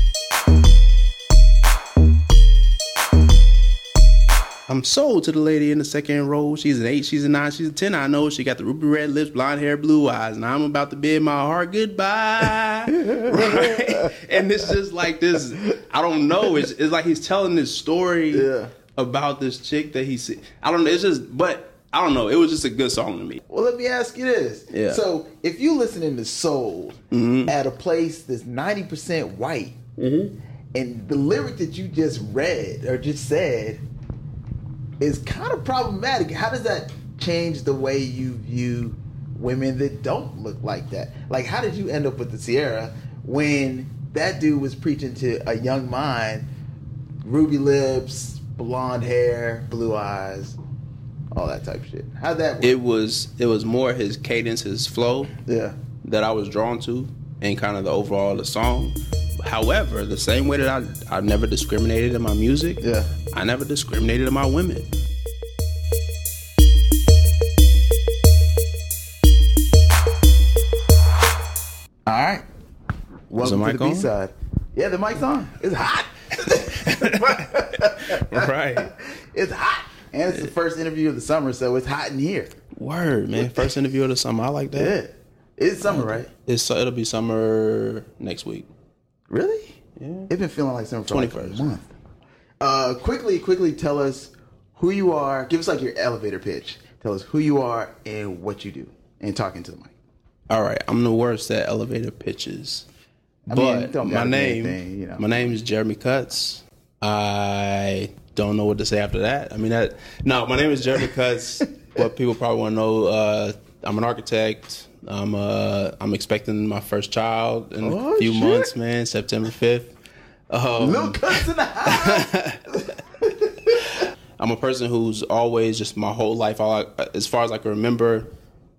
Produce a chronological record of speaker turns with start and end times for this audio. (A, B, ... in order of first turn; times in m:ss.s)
0:04.7-0:23.4 A
0:12.9-0:14.2 B
0:18.3-0:18.7 B
0:23.5-0:29.8 B
0:24.7-0:25.0 A
0:27.1-0:27.5 A
0:30.0-0:30.3 A
0:30.7-0:33.8 B
0:35.0-0:46.5 B
0:47.2-0:50.6 B
0:51.3-0:52.8 B
0:52.6-0:55.3 A
0:55.4-0:55.8 B
0:56.0-1:04.9 A
1:02.8-1:03.1 B
1:12.1-1:12.4 B
1:13.3-1:22.5 B
1:13.4-1:14.1 A
1:16.6-1:18.9 A
1:22.7-1:24.9 A
1:24.7-1:26.3 B
1:25.8-1:28.7 A
1:29.3-1:31.9 B
1:30.0-1:30.3 A
1:31.1-1:31.6 A
1:32.6-1:39.9 B
1:40.5-1:42.9 A
1:43.5-1:45.5 B
1:43.5-1:59.9 A
1:57.8-1:58.7 B
2:00.5-2:02.6 A
2:00.8-2:03.8 B
2:04.4-2:08.3 A